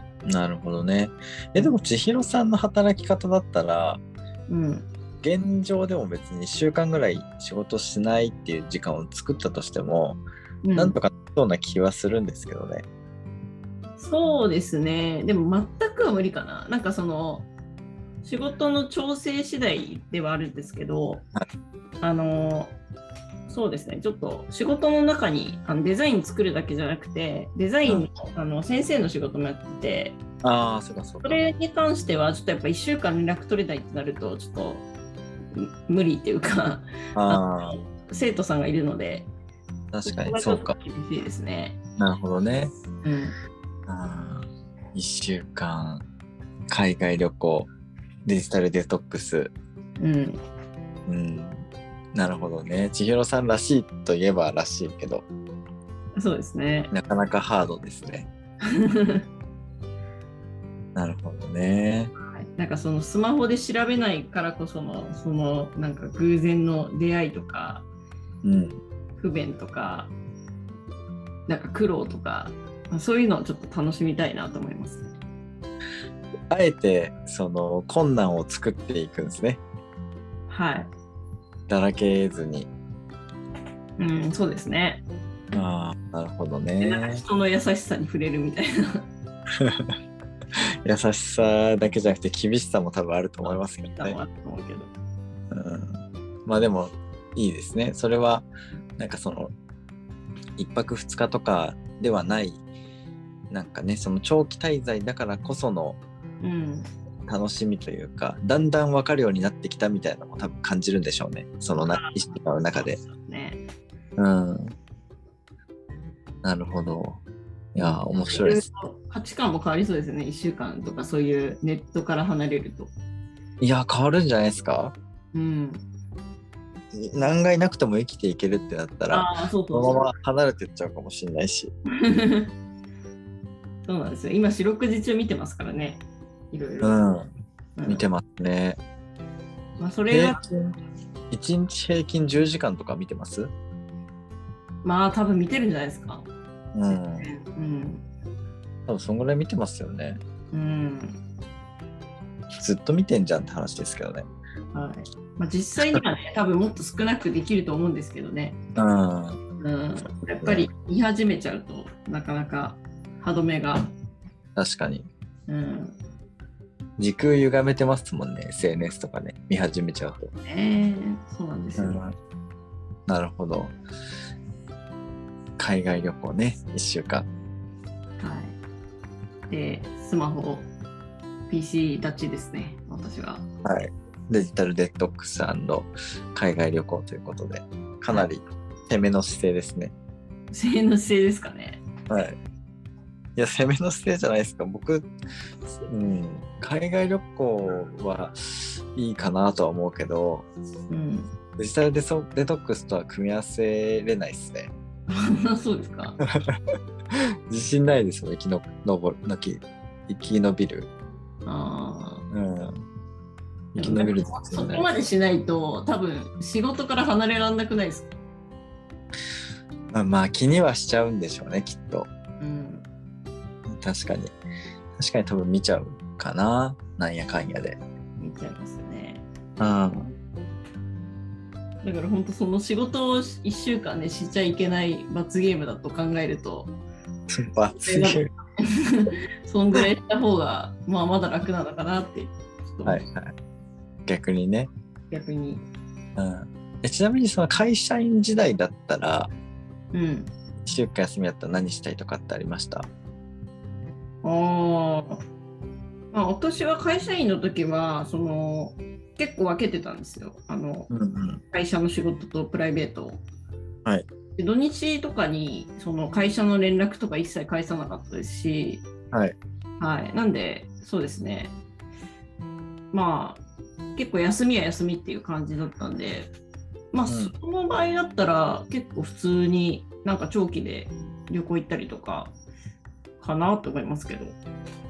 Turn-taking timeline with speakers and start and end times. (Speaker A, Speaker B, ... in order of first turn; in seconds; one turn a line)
Speaker A: 0.2-4.0
Speaker B: 4.5-4.9
Speaker A: 5.2-10.2
Speaker B: 10.6-11.0
Speaker A: 10.8-12.8
Speaker B: 14.0-17.5
Speaker B: 18.2-21.2
Speaker B: 22.0-22.7
Speaker B: 23.5-30.2
Speaker A: 30.4-31.4
Speaker B: 31.2-34.9
Speaker B: 35.5-39.3
Speaker A: 37.1-37.8
Speaker A: 39.9-40.8
Speaker B: 40.0-41.8
Speaker A: 42.0-42.7
Speaker B: 43.0-43.3
Speaker A: 43.9-46.0
Speaker A: 46.7-47.7
Speaker A: 48.2-49.5
Speaker B: 50.0-50.4
Speaker A: 51.1-55.2
Speaker B: 56.2-56.9
Speaker A: 56.9-58.3
Speaker B: 58.6-59.2
Speaker A: 60.9-62.1
Speaker B: 62.3-67.8
Speaker A: 68.4-68.8
Speaker B: 69.2-70.1
Speaker B: 71.5-75.1
Speaker A: 76.5-79.6
Speaker B: 80.5-80.9
Speaker A: 81.7-82.7
Speaker B: 84.0-85.0
Speaker A: 85.5-87.2
Speaker B: 86.8-89.0
Speaker A: 89.5-89.9
Speaker A: 90.8-94.2
Speaker B: 93.8-94.9
Speaker A: 95.5-98.5
Speaker A: 99.0-99.5
Speaker A: 100.6-102.6
Speaker A: 103.5-106.0
Speaker B: 106.4-106.9
Speaker A: 107.3-113.0
Speaker B: 111.9-113.6
Speaker A: 114.2-114.7
Speaker A: 116.4-117.2
Speaker A: 117.7-118.6
Speaker B: 117.8-122.9
Speaker A: 123.6-124.9
Speaker B: 125.3-125.8
Speaker A: 126.9-131.7
Speaker B: 129.1-130.1
Speaker B: 131.9-132.5
Speaker B: 133.8-137.1
Speaker A: 136.8-137.3
Speaker B: 137.8-138.0
Speaker A: 137.9-138.8
Speaker B: 139.8-140.4
Speaker A: 140.1-140.7
Speaker A: 141.3-143.5
Speaker B: 144.8-146.3
Speaker A: 146.7-147.3
Speaker B: 146.9-148.0
Speaker A: 148.9-150.2
Speaker B: 150.5-151.2
Speaker A: 152.5-154.2
Speaker B: 154.7-158.6
Speaker A: 158.8-159.4
Speaker B: 159.6-163.9
Speaker A: 160.4-160.7
Speaker A: 164.6-165.1
Speaker B: 165.5-165.9
Speaker A: 167.0-170.3
Speaker B: 170.4-172.1
Speaker A: 171.8-172.1
Speaker A: 173.1-173.7
Speaker A: 175.6-177.3
Speaker B: 178.2-178.6
Speaker B: 179.5-180.7
Speaker B: 181.5-183.4
Speaker A: 183.6-189.9
Speaker B: 190.5-191.8
Speaker A: 192.1-192.3
Speaker A: 193.3-195.1
Speaker A: 195.7-200.5
Speaker B: 200.9-201.3
Speaker A: 201.6-204.7
Speaker B: 205.1-206.2
Speaker A: 206.2-206.6
Speaker A: 207.1-210.9
Speaker B: 211.4-212.2
Speaker A: 212.3-212.8
Speaker A: 213.7-214.9
Speaker B: 213.8-218.1
Speaker A: 219.9-222.1
Speaker B: 222.4-222.8
Speaker A: 223.7-224.3
Speaker A: 225.0-227.8
Speaker B: 228.2-229.2
Speaker A: 229.6-230.1
Speaker B: 231.8-236.7
Speaker A: 237.3-238.3
Speaker B: 237.8-243.0
Speaker A: 242.8-243.3
Speaker A: 244.1-244.7
Speaker B: 245.1-245.6
Speaker A: 246.2-249.3
Speaker B: 249.9-250.3
Speaker A: 250.6-252.9
Speaker B: 254.2-255.2
Speaker B: 256.1-260.9
Speaker A: 260.9-261.4
Speaker B: 261.5-263.2
Speaker B: 264.4-268.8
Speaker B: 269.8-271.5
Speaker B: 272.9-273.4
Speaker B: 273.9-276.3
Speaker B: 276.9-282.3
Speaker A: 277.1-277.3
Speaker B: 283.2-284.4